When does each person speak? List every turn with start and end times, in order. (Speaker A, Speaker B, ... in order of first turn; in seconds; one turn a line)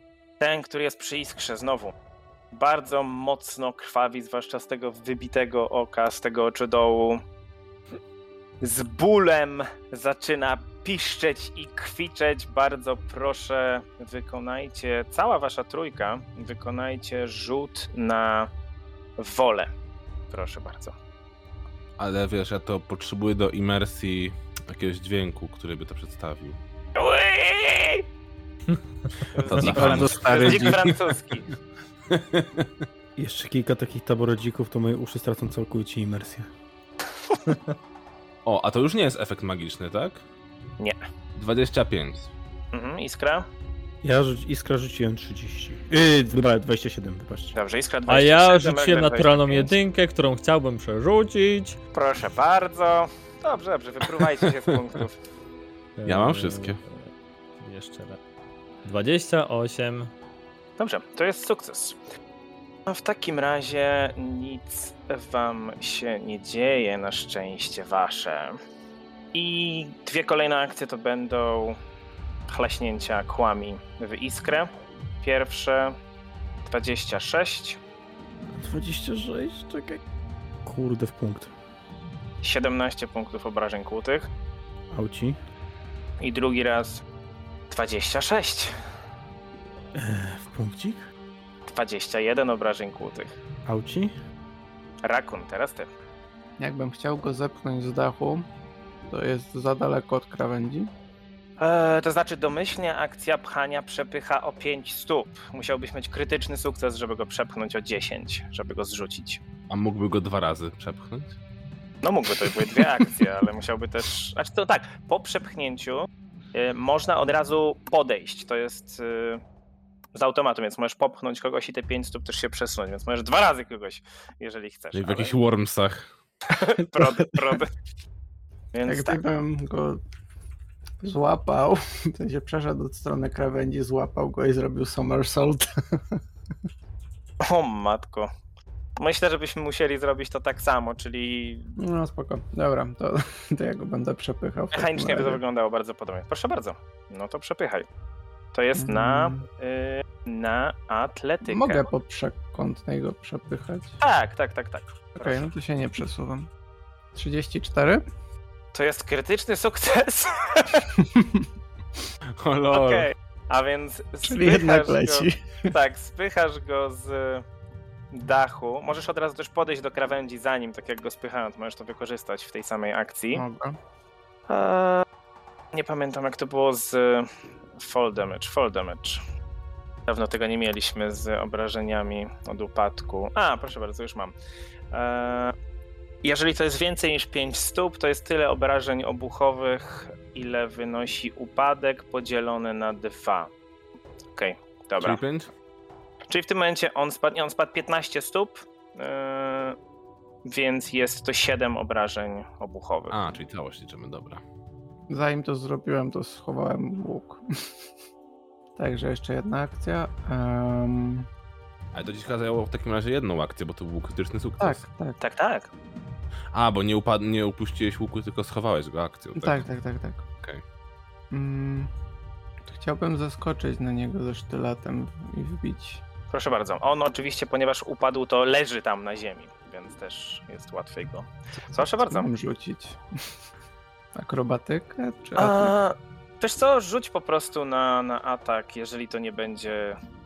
Speaker A: 0.4-1.9
Speaker A: 2.5-7.2
Speaker A: 8.6-18.5
Speaker A: 19.2-19.7
Speaker A: 20.3-20.9
Speaker B: 22.0-26.6
Speaker A: 27.0-28.1
Speaker C: 28.7-29.7
Speaker A: 29.3-31.5
Speaker B: 29.4-30.9
Speaker D: 29.6-30.8
Speaker B: 32.1-32.7
Speaker E: 33.2-36.5
Speaker B: 38.5-40.2
Speaker B: 41.4-42.3
Speaker A: 42.7-43.5
Speaker E: 44.0-47.5
Speaker A: 47.5-49.7
Speaker C: 48.1-51.8
Speaker A: 51.9-55.2
Speaker C: 56.0-57.1
Speaker B: 56.1-56.8
Speaker C: 57.6-58.2
Speaker C: 58.8-60.1
Speaker A: 60.8-62.0
Speaker A: 62.9-68.6
Speaker A: 69.3-71.8
Speaker A: 72.5-74.7
Speaker A: 75.2-76.0
Speaker A: 76.7-77.8
Speaker E: 78.5-80.0
Speaker E: 80.7-81.5
Speaker A: 82.4-84.3
Speaker E: 84.9-85.4
Speaker A: 86.2-87.0
Speaker A: 87.7-88.7
Speaker E: 89.9-91.0
Speaker A: 91.7-93.3
Speaker E: 93.7-94.1
Speaker A: 95.0-95.9
Speaker D: 96.6-98.5
Speaker D: 99.1-100.9
Speaker A: 101.6-109.4
Speaker B: 109.7-111.4
Speaker A: 112.0-119.4
Speaker A: 120.2-125.4
Speaker B: 124.9-126.1
Speaker A: 126.5-127.7
Speaker D: 127.0-127.6
Speaker A: 128.7-129.2
Speaker D: 128.9-130.0
Speaker D: 131.0-136.2
Speaker A: 137.4-138.3
Speaker A: 139.0-141.7
Speaker D: 141.8-145.4
Speaker A: 144.7-147.9
Speaker A: 148.5-151.9
Speaker D: 148.8-149.4
Speaker D: 151.5-154.0
Speaker A: 154.0-155.4
Speaker D: 155.2-156.5
Speaker D: 157.1-158.0
Speaker A: 158.7-160.9
Speaker D: 161.0-161.4
Speaker B: 162.4-163.1
Speaker A: 162.7-167.4
Speaker D: 164.2-165.5
Speaker A: 168.1-173.4
Speaker D: 173.3-173.8
Speaker A: 174.5-175.1
Speaker A: 175.7-179.2
Speaker A: 180.1-184.3
Speaker A: 184.9-185.6
Speaker A: 186.2-193.5
Speaker A: 194.3-195.2
Speaker B: 195.0-195.5
Speaker A: 196.3-199.8
Speaker A: 200.5-203.2
Speaker B: 203.1-204.4
Speaker D: 205.1-207.4
Speaker D: 208.8-211.3
Speaker B: 211.9-214.8
Speaker D: 214.6-215.2
Speaker A: 215.2-215.7
Speaker B: 216.5-219.7
Speaker D: 219.4-220.2
Speaker D: 221.3-221.9
Speaker D: 222.7-226.0
Speaker A: 226.3-232.3
Speaker D: 231.7-233.0
Speaker D: 234.2-235.8
Speaker A: 235.4-240.0